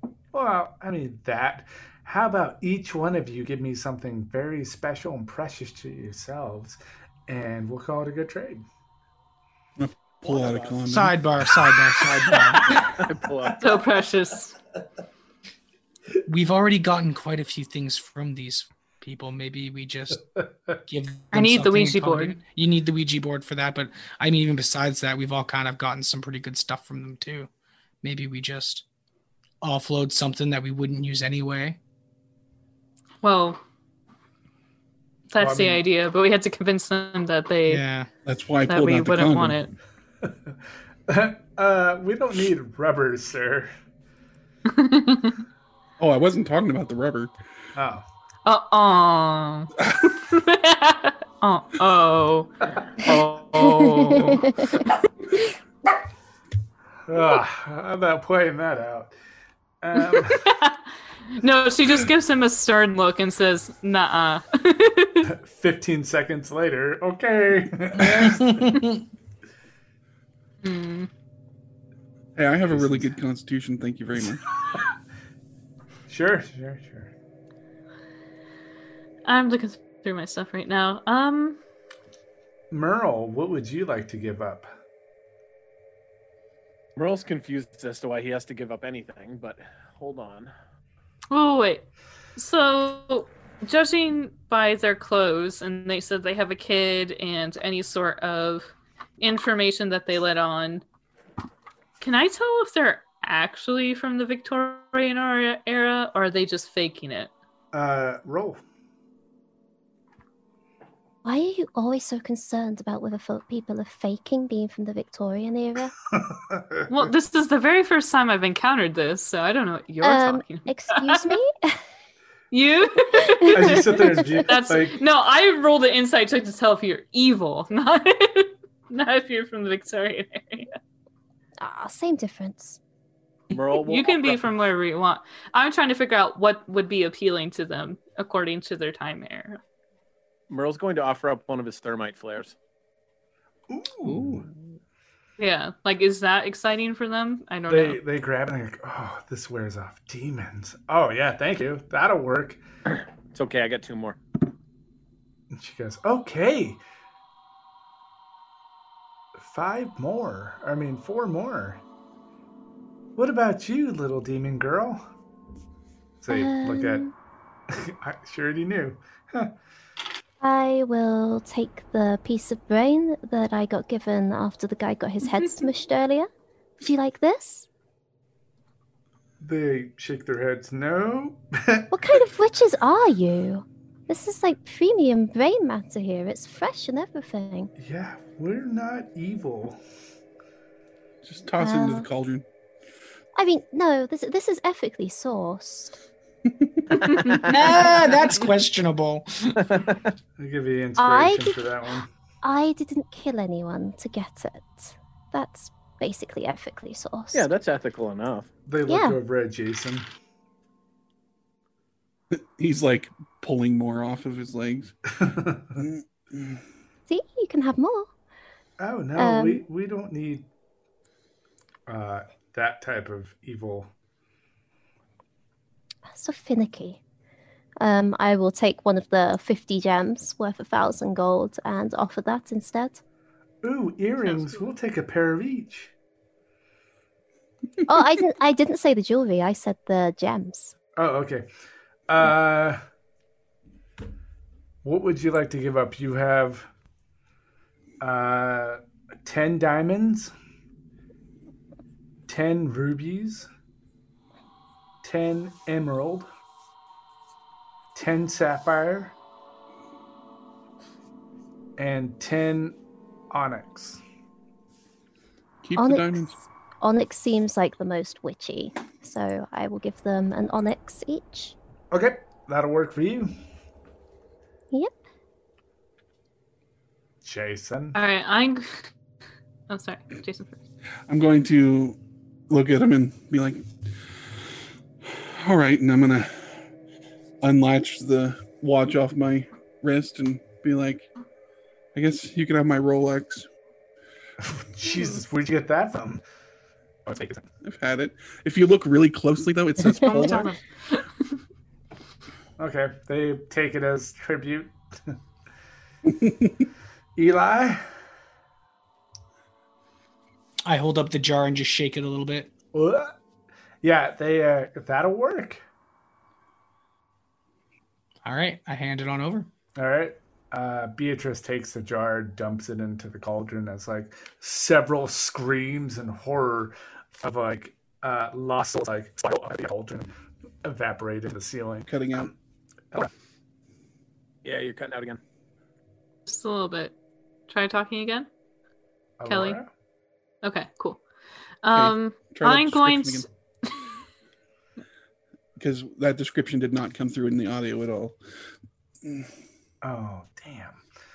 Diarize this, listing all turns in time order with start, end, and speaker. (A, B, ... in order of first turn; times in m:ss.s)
0:00.3-0:08.6 A
0:09.8-0:11.8 B
0:10.2-0:10.8 C
0:10.9-0:12.8 D
0:12.9-0:13.6 C
0:13.6-0:14.6 E
0:16.3-0:20.2 D
0:20.9-0:27.5 D
0:21.3-0:22.4 E
0:28.0-0:28.8 D
0:29.6-0:31.8 D
0:33.2-0:33.6 E
0:35.3-0:37.8 E
0:35.4-0:35.8 A
0:37.7-0:38.1 D
0:38.2-0:39.6 B
0:38.7-0:39.8 E
0:40.2-0:40.6 A
0:41.1-0:43.7 A
0:44.7-0:45.4 E
0:46.0-0:47.4 B
0:47.8-0:48.0 A
0:48.4-0:52.5 E
0:53.0-0:53.3 A
0:53.5-0:54.8 F
0:57.1-0:59.2 A
0:59.8-1:00.4 A
1:00.2-1:00.8 E
1:01.3-1:05.3 E
1:05.2-1:08.7 A
1:08.3-1:08.8 D
1:10.6-1:11.1 E
1:12.4-1:14.4 B
1:12.7-1:13.2 A
1:16.1-1:17.1 A
1:19.3-1:21.6 E
1:22.7-1:24.7 A
1:27.0-1:30.5 C
1:31.3-1:40.8 E
1:42.0-1:47.3 E
1:47.7-1:48.6 A
1:51.2-1:55.9 F
1:56.1-1:56.9 A
1:56.9-2:01.4 E
2:00.0-2:01.8 F
2:02.5-2:10.7 E
2:03.2-2:04.4 F
2:03.5-2:05.0 A
2:11.6-2:12.8 F
2:13.5-2:14.5 C
2:13.7-2:19.6 E
2:20.5-2:22.6 C
2:23.7-2:24.4 A
2:25.4-2:28.0 E
2:27.7-2:32.6 A
2:33.3-2:34.2 C
2:35.5-2:36.8 A
2:39.4-2:41.8 A
2:43.2-2:45.0 A
2:46.2-2:47.1 A
2:46.3-2:47.1 F
2:47.7-2:49.5 A
2:50.4-2:57.7 F
2:59.4-3:02.0 A
3:01.9-3:07.7 F
3:07.8-3:09.8 A
3:11.2-3:12.4 B
3:11.6-3:12.1 F
3:13.4-3:16.0 F
3:16.5-3:17.1 B
3:17.4-3:19.6 D
3:19.6-3:20.1 C
3:20.4-3:22.1 A
3:21.0-3:21.7 F
3:22.4-3:27.5 F
3:27.3-3:28.5 C
3:28.7-3:30.1 A
3:28.9-3:29.2 F
3:32.3-3:34.9 B
3:35.2-3:35.8 A
3:35.8-3:36.6 B
3:37.1-3:38.1 F
3:38.8-3:40.5 A
3:39.2-3:39.6 F
3:41.9-3:43.9 A
3:46.1-3:47.0 F
3:47.8-3:53.0 F
3:53.6-3:55.9 A
3:57.9-4:00.8 F
4:01.0-4:01.5 A
4:02.1-4:02.8 A
4:04.8-4:06.7 A
4:08.0-4:10.3 A
4:12.3-4:13.5 A
4:15.0-4:16.3 A
4:18.0-4:19.2 A
4:21.8-4:22.8 A
4:23.3-4:24.0 A
4:25.6-4:26.4 B
4:25.8-4:31.6 F
4:31.9-4:33.4 A
4:37.2-4:38.0 A
4:37.9-4:38.9 E
4:39.7-4:40.6 E
4:41.1-4:42.0 B
4:42.5-4:43.7 B
4:45.0-4:46.5 B
4:47.4-4:51.1 B
4:51.9-4:53.5 B
4:54.4-4:56.2 A
4:57.1-4:57.5 A
4:57.6-5:00.5 B
5:00.0-5:01.0 E
5:02.6-5:05.2 A
5:06.1-5:06.6 B
5:07.2-5:07.9 A
5:10.6-5:12.5 D
5:12.7-5:13.2 A
5:13.8-5:15.6 A
5:18.2-5:19.5 D
5:19.8-5:30.1 A
5:30.6-5:32.3 A
5:31.9-5:32.3 B
5:34.4-5:35.2 C
5:36.3-5:36.9 E
5:37.5-5:38.3 E
5:39.2-5:39.7 A
5:39.3-5:39.6 E
5:40.4-5:41.0 E
5:41.6-5:43.8 E
5:41.7-5:43.3 B
5:45.6-5:48.2 B
5:49.8-5:50.8 A